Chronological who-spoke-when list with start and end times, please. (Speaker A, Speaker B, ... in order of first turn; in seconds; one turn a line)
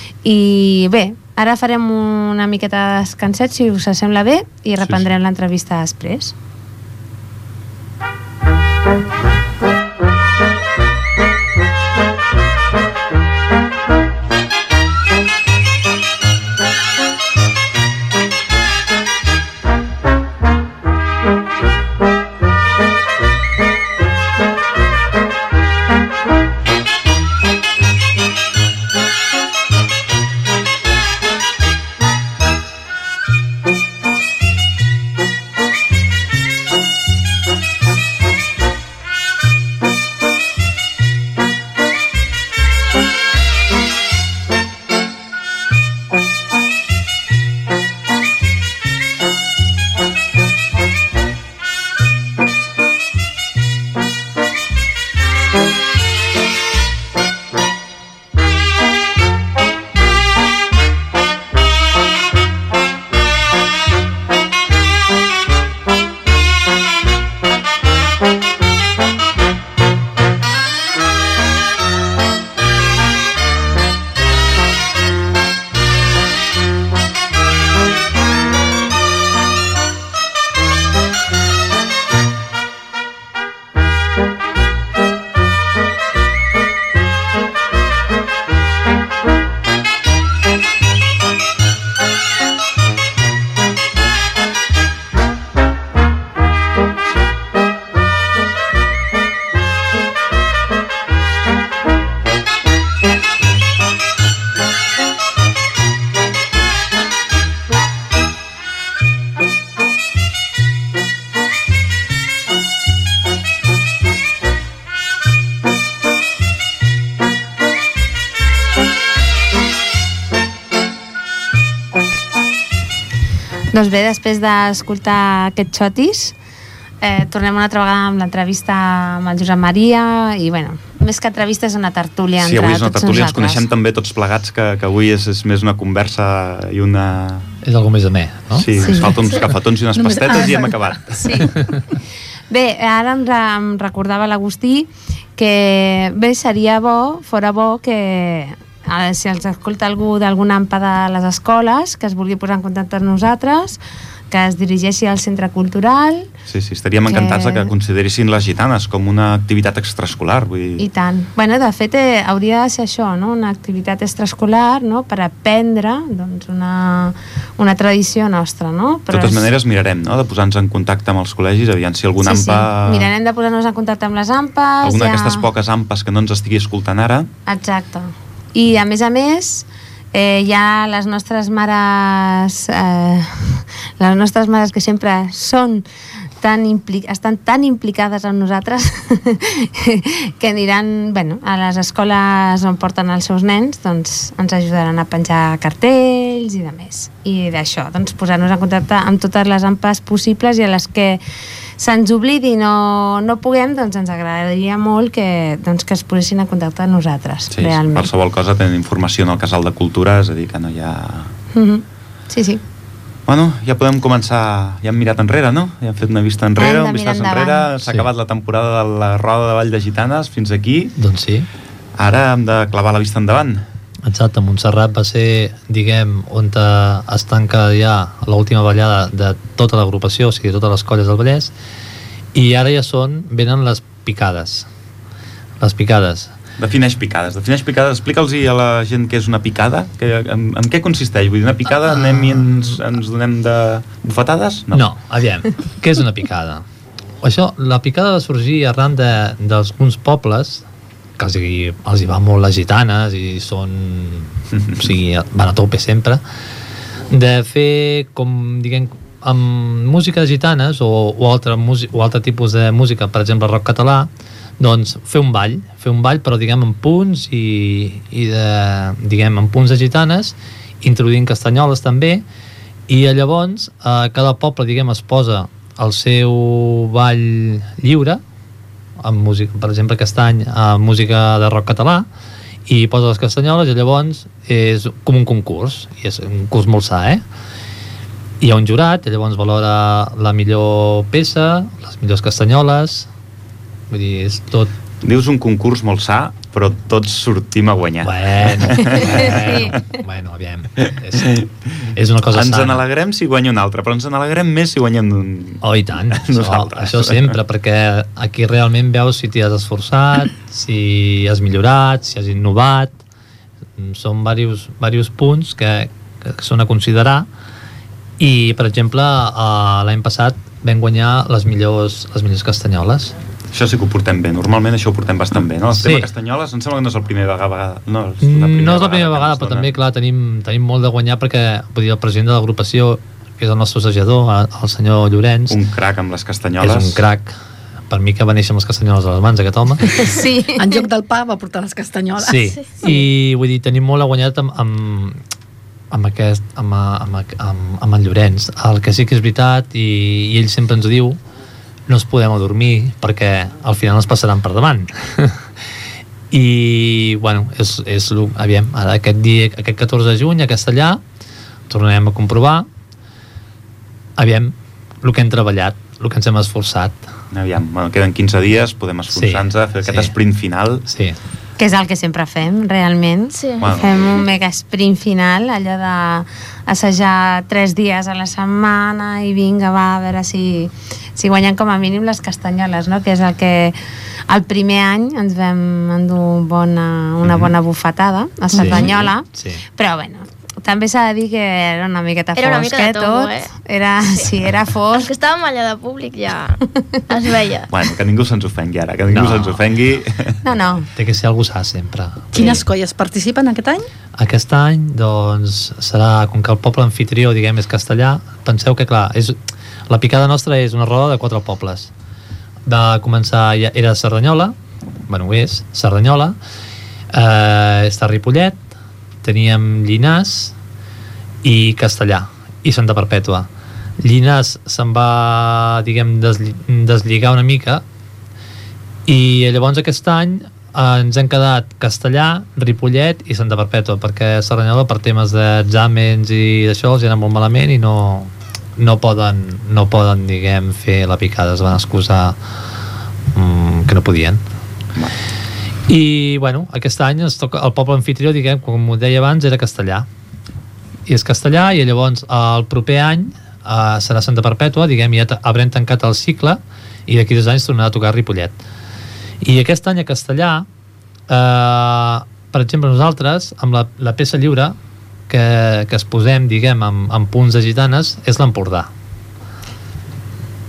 Speaker A: 0.2-6.3
Speaker A: 123.7-126.3
Speaker A: 127.0-133.7
Speaker B: 132.4-137.5
Speaker C: 137.6-138.7
Speaker B: 138.5-141.5
Speaker A: 138.7-139.2
Speaker D: 139.9-141.7
Speaker A: 141.2-141.5
Speaker C: 141.5-141.8
Speaker A: 142.5-153.8
Speaker A: 154.3-156.3
Speaker B: 156.5-160.8
Speaker A: 157.1-157.7
Speaker A: 160.8-169.5
Speaker B: 169.1-173.1
Speaker A: 172.2-175.5
Speaker B: 174.8-177.3
Speaker A: 177.4-185.8
Speaker A: 186.4-201.2
Speaker A: 201.8-208.1
Speaker B: 207.5-211.3
Speaker A: 211.5-212.6
Speaker B: 213.3-220.9
Speaker A: 216.6-217.7
Speaker C: 221.0-221.5
Speaker B: 222.0-223.6
Speaker C: 224.1-231.5
Speaker C: 232.3-234.7
Speaker C: 235.6-236.3
Speaker B: 236.6-244.8
Speaker C: 242.0-242.4
Speaker C: 244.7-246.6
Speaker C: 247.2-250.6
Speaker C: 251.2-256.2
Speaker C: 257.1-272.2
Speaker C: 272.9-278.2
Speaker C: 279.0-282.1
Speaker C: 282.7-287.2
Speaker C: 288.4-293.1
Speaker C: 293.9-294.7
Speaker B: 295.0-299.8
Speaker C: 298.0-301.4
Speaker A: 299.0-299.5
Speaker B: 301.2-301.5
Speaker C: 301.9-302.8
Speaker B: 302.3-305.6
Speaker C: 305.6-312.9
Speaker B: 306.1-307.3
Speaker C: 313.8-317.2
Speaker C: 318.2-323.1
Speaker B: 323.5-329.7
Speaker C: 325.7-326.1
Speaker C: 328.2-335.6
Speaker B: 335.5-337.0
Speaker C: 336.6-337.3
Speaker C: 337.9-340.0
Speaker A: 340.0-340.8
Speaker D: 340.6-342.9
Speaker C: 342.2-345.2
Speaker C: 345.9-351.2
Speaker C: 351.9-355.5
Speaker C: 356.3-361.0
Speaker C: 361.7-362.7
Speaker C: 364.2-367.0
Speaker B: 367.3-370.9
Speaker C: 369.1-370.1
Speaker C: 370.9-371.2
Speaker A: 371.6-383.8
Speaker E: 373.3-374.2
Speaker B: 373.6-374.3
Speaker A: 384.3-395.1
Speaker B: 387.2-387.5
Speaker C: 388.5-389.6
Speaker B: 388.6-389.1
Speaker E: 392.4-393.5
Speaker E: 394.9-397.7
Speaker B: 397.7-400.4
Speaker C: 399.1-399.6
Speaker A: 400.4-400.9
Speaker C: 400.9-402.6
Speaker D: 402.3-403.9
Speaker C: 404.2-409.4
Speaker C: 409.9-411.9
Speaker C: 412.6-414.5
Speaker C: 415.1-416.4
Speaker C: 417.1-418.6
Speaker C: 419.2-420.5
Speaker C: 421.4-423.5
Speaker C: 424.0-427.8
Speaker C: 429.1-442.4
Speaker C: 443.3-444.4
Speaker C: 445.9-450.1
Speaker C: 451.1-458.6
Speaker C: 459.4-460.6
Speaker C: 461.3-464.8
Speaker C: 465.3-468.9